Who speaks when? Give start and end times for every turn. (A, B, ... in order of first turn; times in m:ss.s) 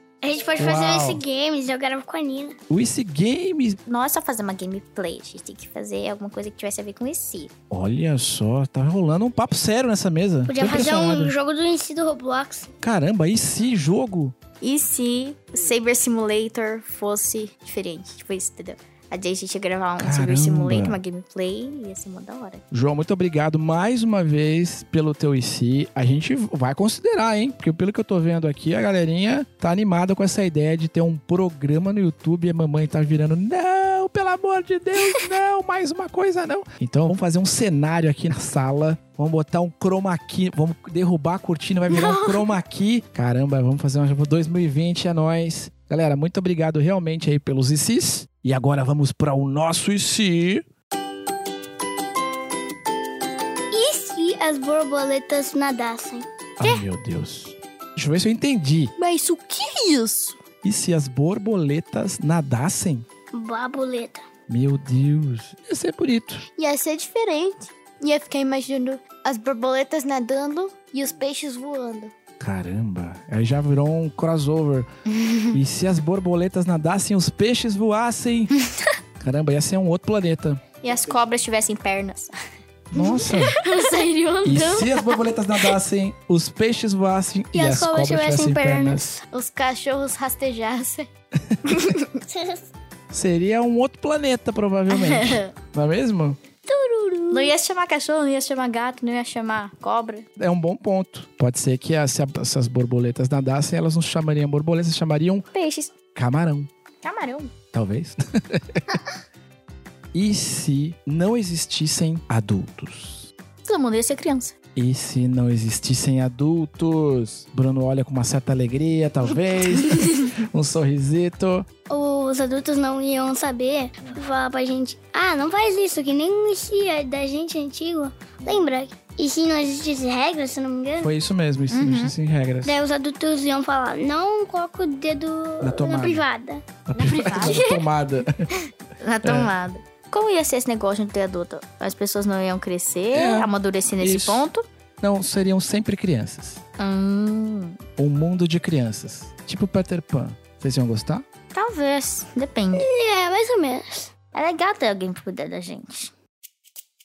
0:00.2-0:02.6 A
0:00.6-0:01.2 B
0:02.7-0:03.8 B
0:03.9-0:07.5 C
0:07.7-0:11.3 B
0:10.4-0:12.7 A
0:12.8-0:14.4 B
0:14.6-0:22.6 C
0:20.0-0:21.0 B
0:22.7-0:50.6 B
0:41.9-0:42.5 C
0:53.7-0:56.3 A
0:56.6-0:58.9 B
0:59.0-1:00.4 D
1:00.6-1:03.0 B
1:03.3-1:04.2 A
1:04.5-1:06.4 B
1:06.6-1:12.1 D
1:06.6-1:07.2 C
1:09.3-1:10.6 C
1:12.4-1:14.9 B
1:15.1-1:15.6 C
1:15.5-1:18.5 B
1:19.2-1:20.6 B
1:20.8-1:22.3 C
1:22.9-1:23.6 B
1:23.0-1:25.7 C
1:24.4-1:29.2 B
1:27.5-1:29.2 A
1:29.3-1:31.1 C
1:31.4-1:31.9 B
1:31.7-1:32.0 C
1:32.3-1:32.6 A
1:33.1-1:36.4 B
1:34.9-1:35.5 C
1:36.7-1:37.5 A
1:37.3-1:40.2 C
1:40.4-1:45.4 B
1:45.5-1:45.9 C
1:46.1-1:46.7 B
1:47.0-1:47.5 C
1:47.7-1:49.0 B
1:50.1-1:53.3 B
1:53.6-1:54.5 C
1:54.8-2:01.7 B
2:00.0-2:00.3 C
2:01.9-2:11.1 A
2:11.0-2:12.8 B
2:11.7-2:12.1 C
2:12.6-2:16.6 A
2:15.6-2:16.2 B
2:16.9-2:18.4 B
2:16.9-2:17.8 C
2:19.0-2:24.6 C
2:19.2-2:19.5 B
2:23.1-2:24.5 B
2:25.0-2:26.6 B
2:26.8-2:27.8 C
2:28.0-2:31.2 B
2:31.5-2:32.8 C
2:32.7-2:34.1 A
2:34.3-2:36.1 C